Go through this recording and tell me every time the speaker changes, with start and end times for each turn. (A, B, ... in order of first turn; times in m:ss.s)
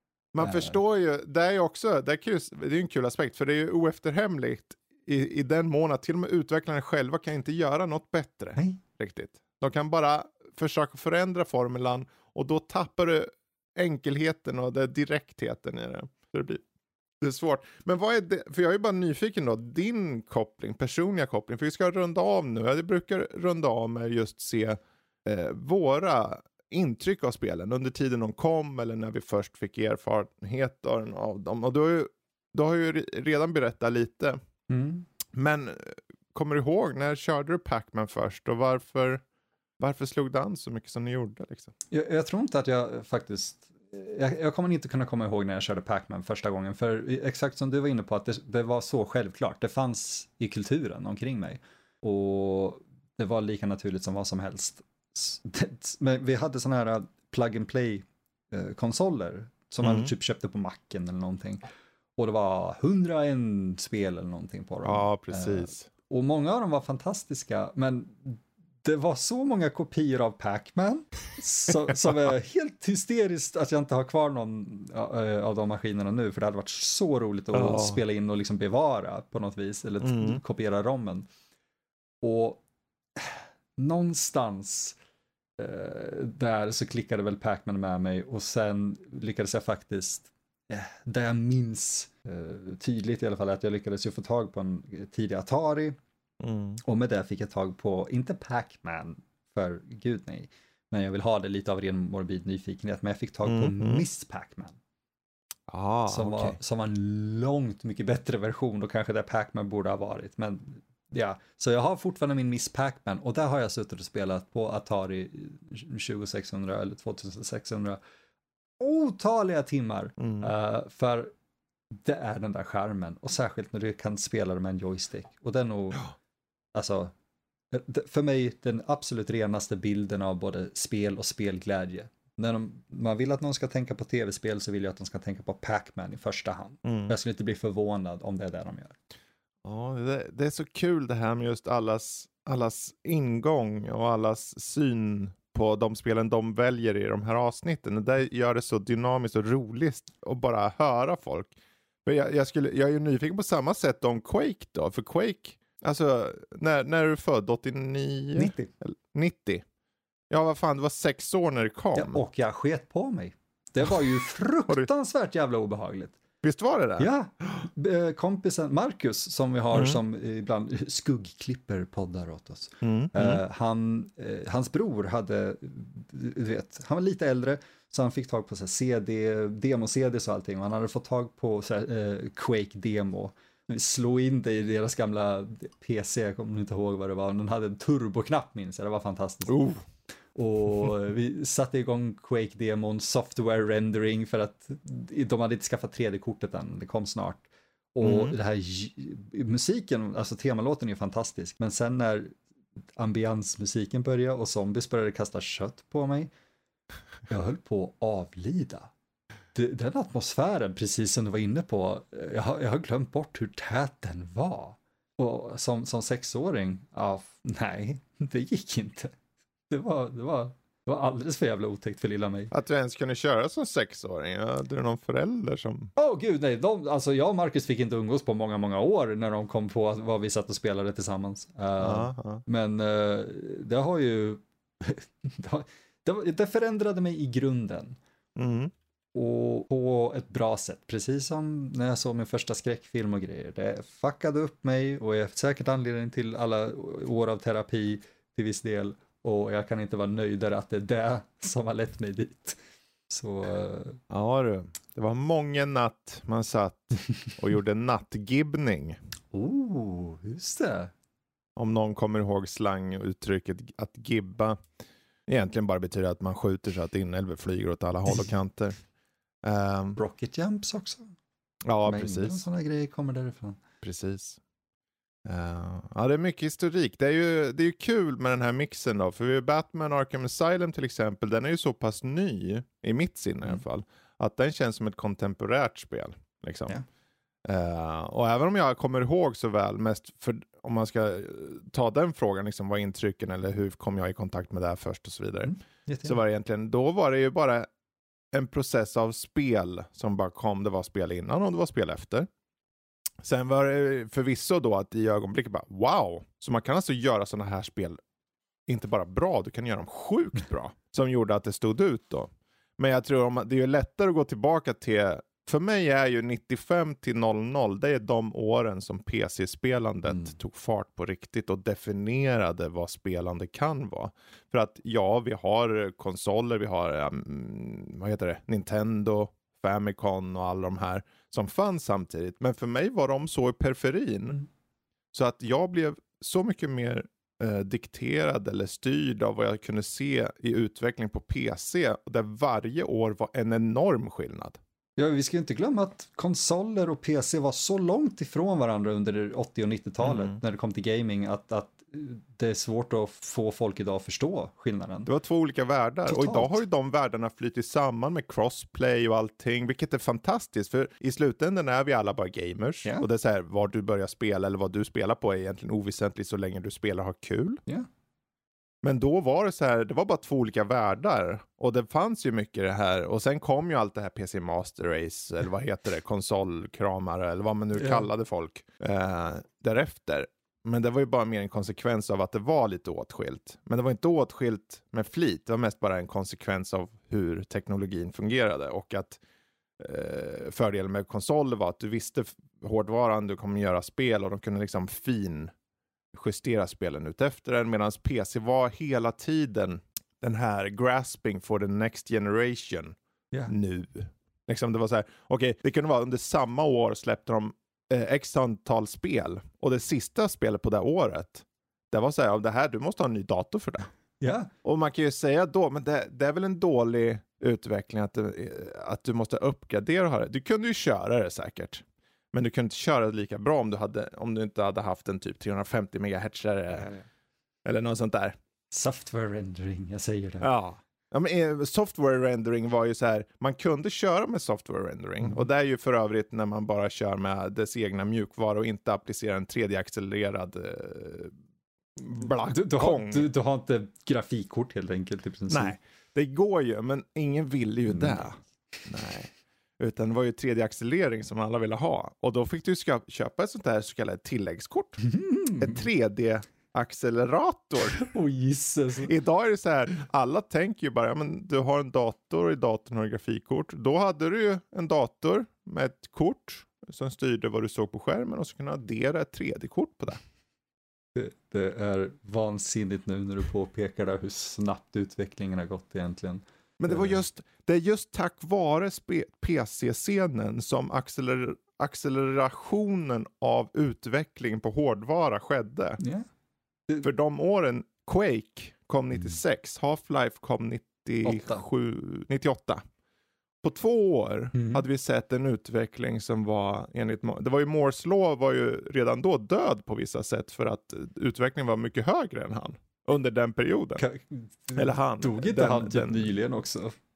0:00.3-0:16.6 A
0:00.4-0:00.8 B
0:17.2-0:34.4 A
0:34.7-0:35.1 B
0:35.3-0:39.2 A
0:39.8-0:41.7 A
0:41.9-1:01.6 B
0:59.8-1:00.1 A
1:02.2-1:21.3 B
1:04.8-1:05.9 A
1:17.5-1:18.0 A
1:20.0-1:20.4 A
1:22.2-1:22.6 B
1:23.2-1:25.0 B
1:25.6-1:36.0 B
1:36.4-1:36.8 A
1:36.8-1:44.8 B
1:43.4-1:44.0 A
1:45.7-1:46.6 A
1:46.1-1:58.0 B
1:58.8-2:01.3 B
2:00.2-2:00.5 A
2:02.0-2:06.1 B
2:06.7-2:07.1 B
2:07.7-2:19.0 B
2:16.8-2:17.1 A
2:19.6-2:39.6 A
2:38.3-2:38.7 B
2:40.3-2:42.2 A
2:41.9-2:46.2 B
2:46.4-2:47.1 A
2:47.0-3:09.7 B
2:49.7-2:50.0 A
2:52.8-2:53.4 A
3:09.5-3:09.8 A
3:10.3-3:22.4 B
3:18.0-3:18.3 A
3:23.0-3:26.3 B
3:27.3-3:28.9 B
3:29.5-3:39.1 B
3:39.7-3:42.5 B
3:42.5-3:45.9 A
3:46.0-3:58.0 B
3:51.8-3:52.4 A
3:58.4-3:58.7 A
3:59.1-4:14.0 B
4:14.1-4:19.0 A
4:19.3-4:20.9 B
4:21.6-4:24.6 A
4:25.3-4:28.8 A
4:29.4-4:30.0 A
4:30.0-4:31.1 B
4:31.6-4:32.4 A
4:31.8-4:33.6 B
4:33.8-4:34.4 A
4:35.2-4:46.8 A
4:47.4-4:57.7 A
4:55.4-4:56.2 B
4:58.3-5:02.3 A
5:03.2-5:08.0 A
5:08.7-5:34.4 A
5:35.1-5:44.6 A
5:45.0-5:55.1 B
5:50.0-5:50.4 A
5:55.1-6:07.6 A
5:56.0-5:56.6 B
6:08.8-6:29.2 A
6:17.8-6:18.0 B
6:29.8-6:35.5 A
6:36.1-6:43.0 A
6:43.5-6:53.9 A
6:54.2-6:54.5 B
6:54.6-7:06.9 A
7:07.6-7:08.4 A
7:08.7-7:10.5 B
7:10.4-7:21.3 A
7:22.0-7:23.3 A
7:22.5-7:25.8 B
7:25.5-7:35.0 A
7:27.9-7:28.2 B
7:35.0-7:35.8 B
7:35.6-7:38.0 A
7:37.9-7:39.1 B
7:39.0-7:50.2 A
7:51.1-7:57.2 B
7:56.8-8:06.0 A
8:06.0-8:06.2 B
8:07.0-8:12.8 A
8:11.2-8:11.6 B
8:13.6-8:24.0 A
8:14.5-8:14.8 B
8:24.0-8:26.9 B
8:24.7-8:26.3 A